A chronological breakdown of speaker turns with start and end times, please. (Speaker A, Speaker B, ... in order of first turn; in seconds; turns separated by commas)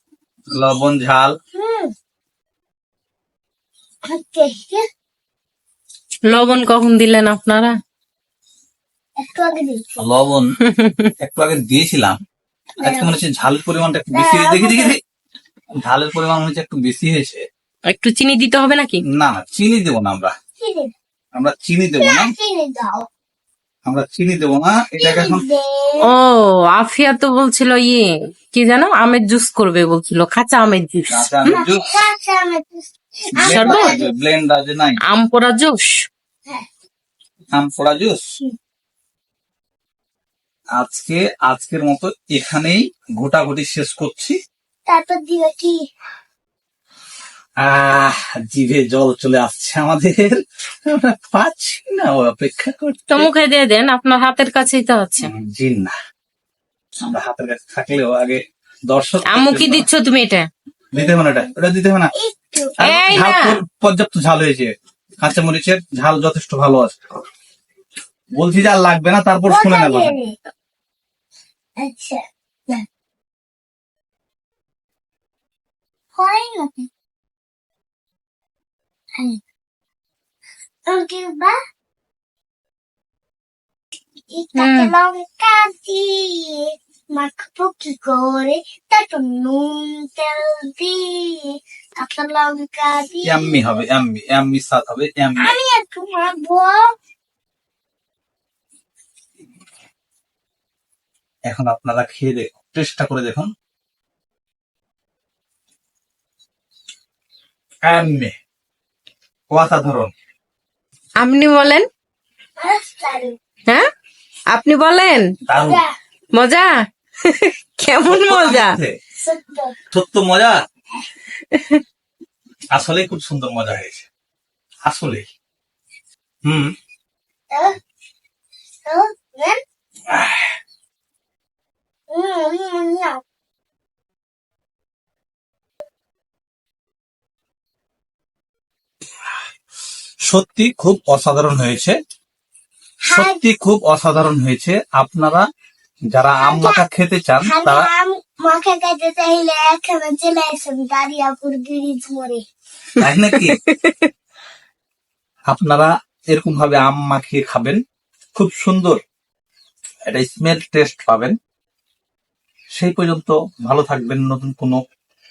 Speaker A: 0.5-1.3, Speaker B: 1.5-1.9, Speaker B: 4.1-4.8, Speaker C: 6.3-7.7, Speaker B: 9.2-10.0, Speaker A: 10.0-10.5, Speaker C: 10.7-11.1, Speaker A: 11.2-12.2, Speaker A: 12.8-14.9, Speaker B: 12.8-13.1, Speaker B: 14.1-14.9, Speaker A: 15.8-17.4, Speaker C: 17.9-19.0, Speaker A: 19.1-20.3, Speaker B: 20.6-20.9, Speaker A: 21.4-22.3, Speaker B: 22.0-23.0, Speaker A: 23.9-25.4, Speaker B: 25.0-26.1, Speaker C: 26.0-31.6, Speaker A: 31.1-31.8, Speaker B: 31.5-34.0, Speaker A: 33.4-35.0, Speaker C: 33.5-34.0, Speaker C: 35.1-36.0, Speaker A: 37.6-38.2, Speaker A: 40.8-44.4, Speaker B: 44.9-45.8, Speaker A: 47.6-53.3, Speaker C: 53.1-55.3, Speaker A: 55.2-55.9, Speaker A: 57.0-59.9, Speaker C: 59.3-60.5, Speaker A: 60.9-62.1, Speaker B: 60.9-61.5, Speaker B: 62.1-63.2, Speaker C: 62.8-63.5, Speaker A: 62.9-64.7, Speaker A: 65.2-67.0, Speaker A: 68.4-70.1, Speaker B: 69.5-70.3, Speaker B: 71.8-72.8, Speaker B: 76.2-76.9, Speaker B: 80.9-81.5, Speaker B: 84.3-93.8, Speaker C: 84.6-84.9, Speaker A: 93.2-95.5, Speaker B: 95.4-96.8, Speaker A: 101.5-103.5, Speaker A: 107.9-108.3, Speaker A: 109.5-110.1, Speaker C: 111.2-111.9, Speaker B: 112.6-113.4, Speaker C: 114.5-115.3, Speaker A: 115.5-115.8, Speaker B: 115.5-115.9, Speaker C: 116.3-118.8, Speaker A: 118.0-118.9, Speaker B: 119.2-119.8, Speaker A: 119.9-120.5, Speaker C: 121.5-121.8, Speaker A: 122.7-124.0, Speaker A: 124.8-125.2, Speaker A: 126.4-126.7, Speaker B: 128.8-129.6, Speaker A: 130.1-130.5, Speaker B: 132.1-133.2, Speaker A: 140.3-141.9, Speaker B: 143.0-143.4, Speaker A: 143.1-145.4, Speaker A: 146.1-147.9, Speaker B: 146.4-146.8, Speaker B: 147.4-152.4, Speaker A: 153.0-153.6, Speaker C: 153.0-154.1, Speaker A: 155.5-157.8, Speaker A: 158.3-159.0, Speaker A: 160.1-161.3, Speaker A: 162.8-164.8